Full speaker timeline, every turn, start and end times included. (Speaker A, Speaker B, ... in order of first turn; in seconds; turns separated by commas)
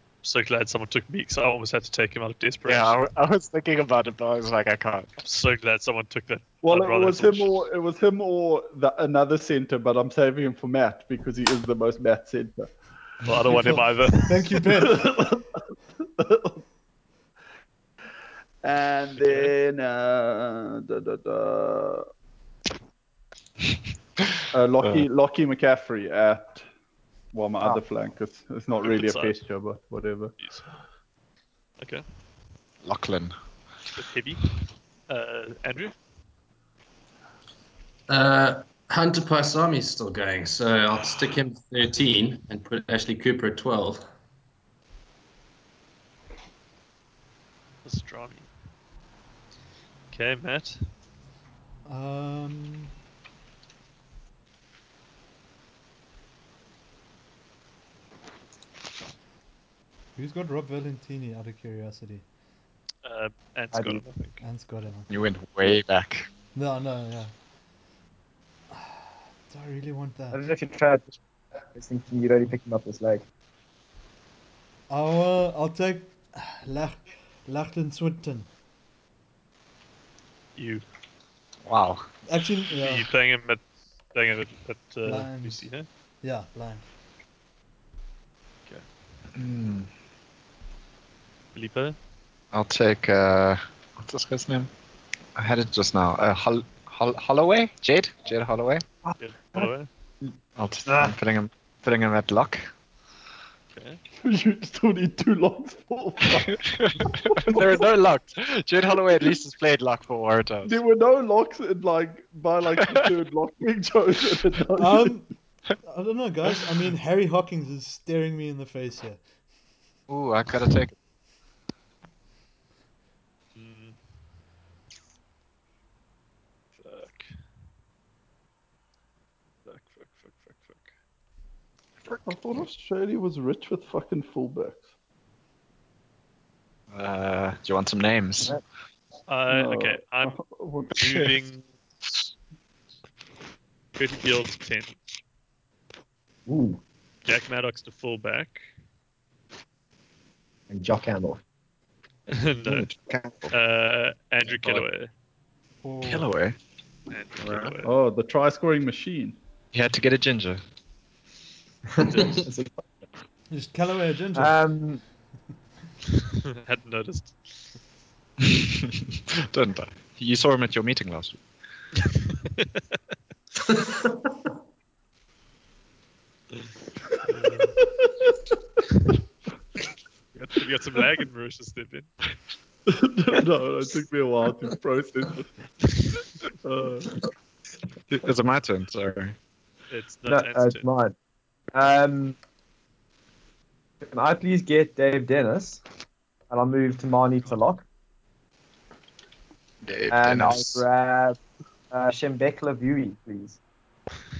Speaker A: 0.2-3.0, Speaker B: 2.6-5.2, Speaker A: 5.2-7.6, Speaker C: 6.6-12.8, Speaker A: 13.2-14.6, Speaker D: 13.5-15.1, Speaker C: 14.7-15.7, Speaker C: 16.2-16.6, Speaker C: 18.6-22.1, Speaker A: 19.2-19.5, Speaker C: 24.5-26.7, Speaker C: 27.3-30.4, Speaker A: 28.8-29.4, Speaker A: 30.4-30.7, Speaker B: 32.8-33.4, Speaker A: 34.0-34.5, Speaker A: 35.1-36.0, Speaker E: 38.1-44.0, Speaker A: 47.9-48.5, Speaker A: 50.1-50.9, Speaker D: 51.9-52.9, Speaker D: 60.2-62.2, Speaker A: 63.0-64.4, Speaker F: 63.7-64.0, Speaker D: 64.4-65.1, Speaker B: 65.1-66.3, Speaker D: 66.5-67.3, Speaker D: 68.7-70.4, Speaker F: 70.3-71.2, Speaker F: 71.7-73.3, Speaker D: 74.9-78.5, Speaker A: 80.6-80.8, Speaker B: 81.7-82.1, Speaker D: 82.3-83.1, Speaker A: 82.8-83.6, Speaker A: 84.1-85.9, Speaker D: 85.0-85.7, Speaker D: 86.2-86.8, Speaker B: 89.3-89.9, Speaker A: 91.5-92.0, Speaker B: 92.5-94.7, Speaker B: 95.3-99.7, Speaker A: 99.2-99.9, Speaker B: 100.6-102.7, Speaker F: 100.9-101.1, Speaker A: 103.8-104.0, Speaker C: 104.2-107.9, Speaker B: 106.3-110.8, Speaker C: 110.6-115.2, Speaker B: 112.8-113.1, Speaker D: 114.8-119.2, Speaker B: 120.1-120.9, Speaker A: 123.5-124.0, Speaker A: 126.8-127.4, Speaker A: 129.7-130.9, Speaker C: 132.2-134.9, Speaker B: 136.9-138.6, Speaker A: 139.3-140.4, Speaker C: 139.5-141.0, Speaker A: 141.0-141.7, Speaker B: 141.0-141.3, Speaker A: 144.0-145.0, Speaker F: 146.5-146.8, Speaker A: 147.2-148.6, Speaker F: 150.7-151.4, Speaker A: 152.3-152.9, Speaker B: 152.7-153.5, Speaker A: 153.5-155.1, Speaker D: 155.8-156.3, Speaker B: 156.0-156.6, Speaker A: 157.1-157.9, Speaker B: 157.4-157.8, Speaker C: 157.8-159.4, Speaker B: 159.7-160.6, Speaker F: 162.0-162.9, Speaker E: 162.1-162.4, Speaker D: 163.5-164.6, Speaker F: 164.3-165.0, Speaker A: 166.5-167.5, Speaker B: 168.4-171.4, Speaker E: 173.7-174.1, Speaker A: 177.3-177.8, Speaker A: 180.3-182.1, Speaker C: 182.9-185.5, Speaker C: 186.6-187.2, Speaker B: 188.1-189.4, Speaker A: 189.9-190.8, Speaker F: 190.3-191.2, Speaker F: 191.7-192.4, Speaker F: 194.1-195.8, Speaker F: 196.5-197.8, Speaker B: 199.8-200.8, Speaker F: 200.1-201.4, Speaker F: 201.9-203.6